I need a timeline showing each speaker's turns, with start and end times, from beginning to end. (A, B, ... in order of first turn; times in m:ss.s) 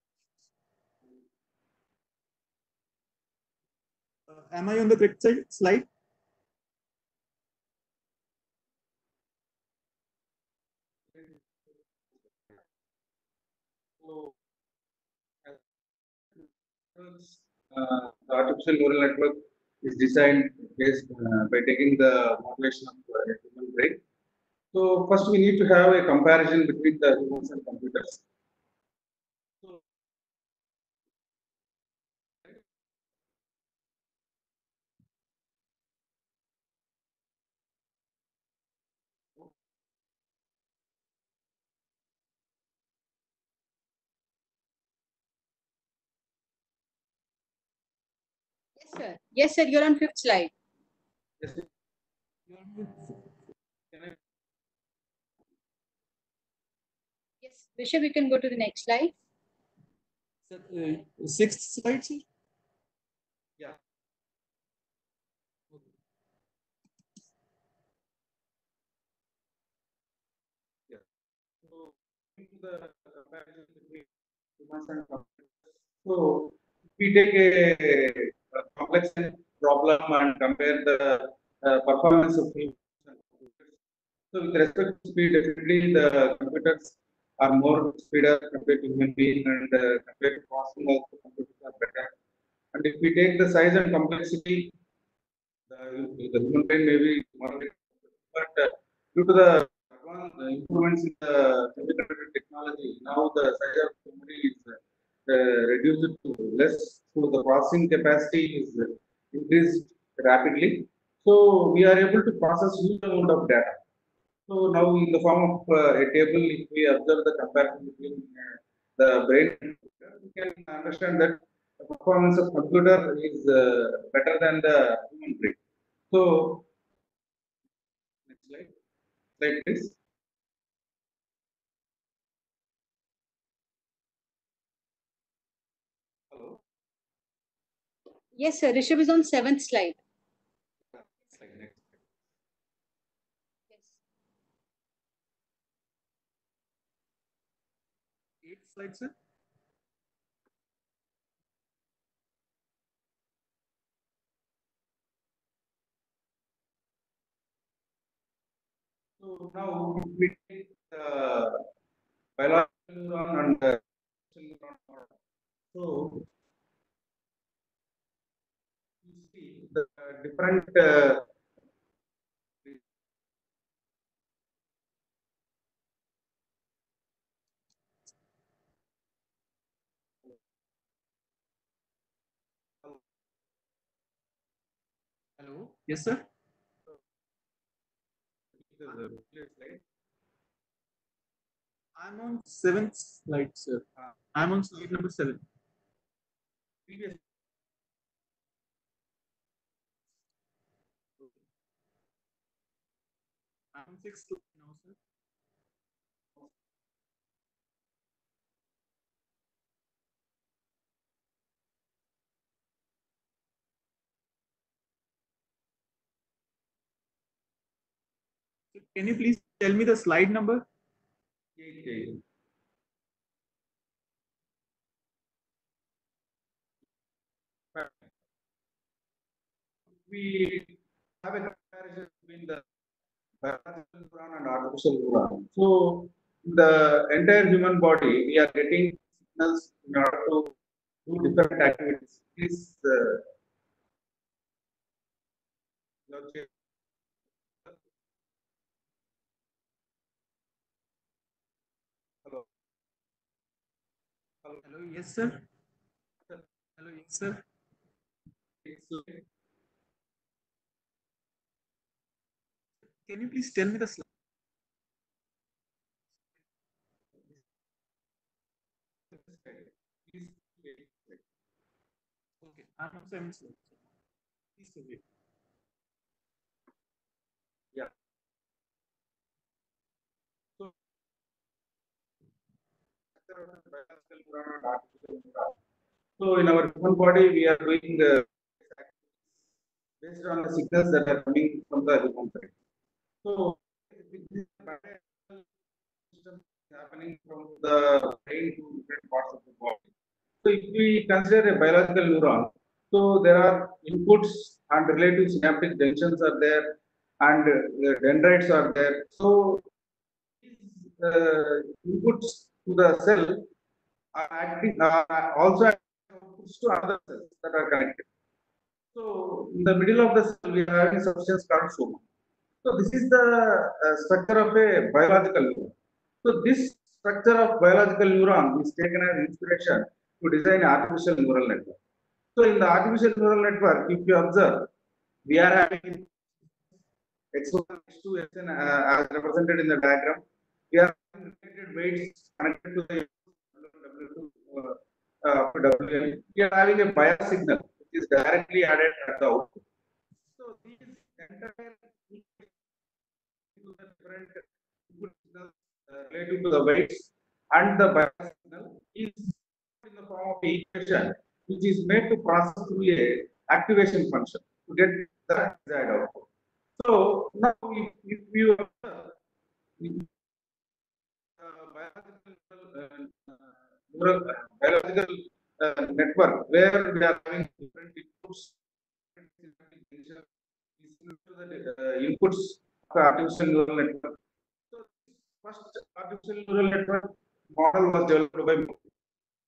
0:04.3-0:05.9 A
0:11.1-0:11.6 B
0:12.1-0:12.6 B
0:14.0-0:14.3 B
0:16.3-0:24.0 B
0:24.7-0:28.2 B
0:48.8-0:50.5 C
0:51.4-0:51.7 B
0:52.5-0:53.3 A
0:53.9-0:54.2 B
0:57.4-0:59.1 C
1:00.5-1:02.2 A
1:11.6-1:23.8 B
1:24.3-1:32.1 B
1:32.7-1:34.7 B
1:35.7-1:53.8 B
1:54.5-2:05.6 B
2:06.1-2:06.6 B
2:08.3-2:08.7 B
2:09.4-2:09.9 B
2:16.3-2:16.6 B
2:18.4-2:20.0 C
2:20.9-2:22.0 B
2:23.7-2:24.0 C
2:28.4-2:29.1 A
2:39.2-2:41.6 B
2:42.4-2:45.1 B
2:45.7-2:46.3 B
2:49.0-2:51.2 B
3:05.4-3:06.2 A
3:08.6-3:09.8 B
3:12.0-3:15.4 A
3:16.9-3:17.2 B
3:23.7-3:25.0 A
3:38.7-3:40.6 A
3:41.6-3:42.2 B
3:47.7-3:48.1 B
3:50.0-3:52.6 B
3:53.4-4:00.5 B
4:01.0-4:03.2 B
4:06.1-4:06.5 B
4:14.6-4:15.4 A
4:16.8-4:17.4 A
4:18.6-4:19.2 B
4:23.0-4:24.0 A
4:29.1-4:31.2 B
4:32.4-4:33.8 A
4:34.6-4:35.0 A
4:43.1-4:45.6 B
4:46.2-4:49.4 B
4:50.0-4:52.5 B
4:53.2-4:55.5 B
4:56.1-4:59.9 B
5:00.4-5:09.6 B
5:10.4-5:13.5 B
5:14.1-5:18.1 B
5:18.9-5:22.0 B
5:22.6-5:31.8 B
5:32.3-5:34.7 B
5:35.3-5:36.1 B
5:37.3-5:49.6 B
5:50.4-5:52.5 B
5:53.5-6:06.2 B
6:06.8-6:09.2 B
6:09.8-6:10.1 B
6:11.4-6:18.5 B
6:19.1-6:20.3 B
6:20.8-6:24.2 B
6:24.7-6:28.8 B